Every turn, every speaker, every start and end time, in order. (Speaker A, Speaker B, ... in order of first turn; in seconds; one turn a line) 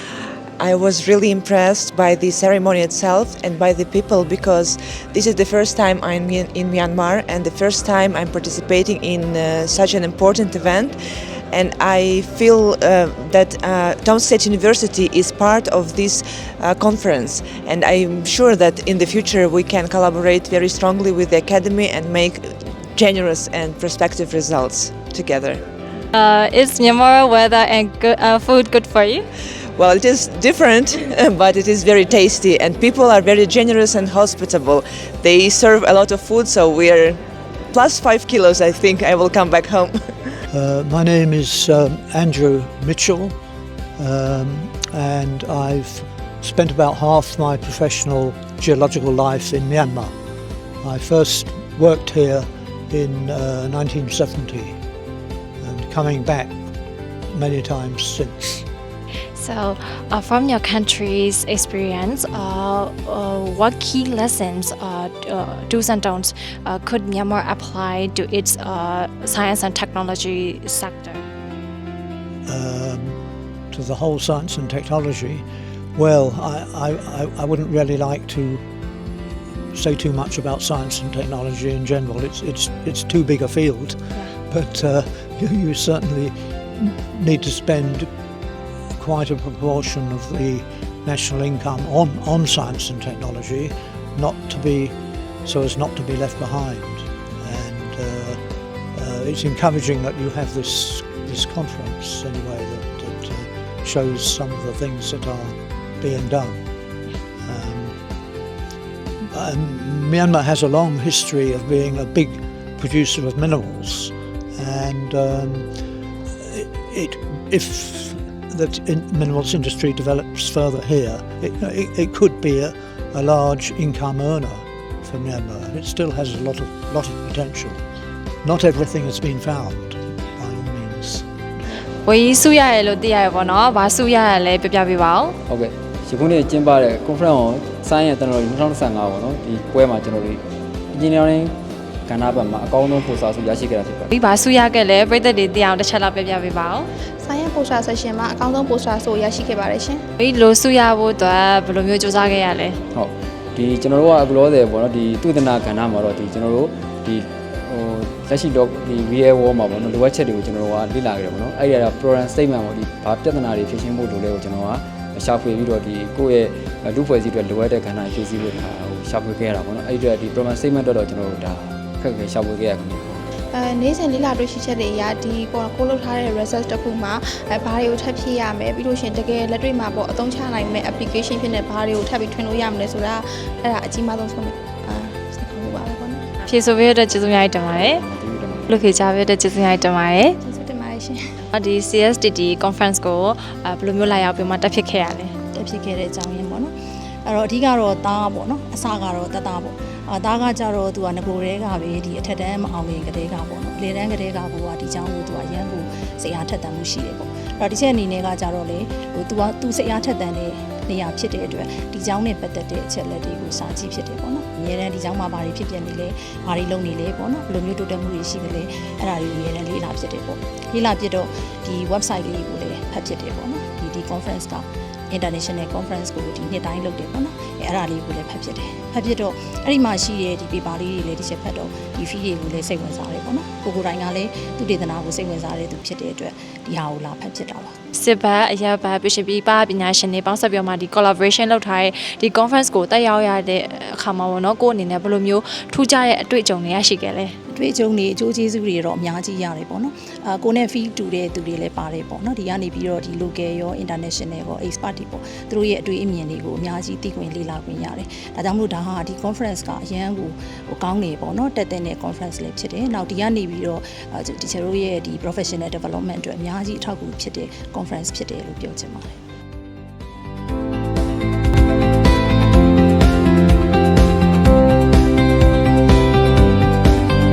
Speaker A: 0.6-25.6
Speaker B: 26.1-29.2
Speaker A: 29.8-40.4
Speaker C: 40.5-43.4
Speaker C: 44.0-50.1
Speaker C: 50.8-54.8
Speaker C: 55.6-56.6
Speaker C: 57.3-58.6
Speaker B: 59.4-71.2
Speaker C: 72.5-78.7
Speaker C: 79.7-88.1
Speaker C: 88.9-106.6
Speaker C: 107.4-108.0
Speaker C: 109.3-115.7
Speaker C: 116.4-127.8
Speaker C: 128.4-131.3
Speaker B: 132.0-135.4
Speaker D: 135.5-140.4
Speaker D: 140.9-141.6
Speaker D: 142.1-144.1
Speaker B: 144.1-146.9
Speaker E: 147.2-150.0
Speaker B: 150.2-152.8
Speaker D: 152.9-173.3
Speaker E: 173.5-186.3
Speaker B: 186.5-188.0
Speaker D: 187.8-188.8
Speaker B: 188.7-190.4
Speaker E: 190.4-191.2
Speaker B: 191.5-195.3
Speaker F: 195.5-196.7
Speaker F: 197.3-237.7
Speaker B: 237.9-247.3
Speaker F: 247.5-269.1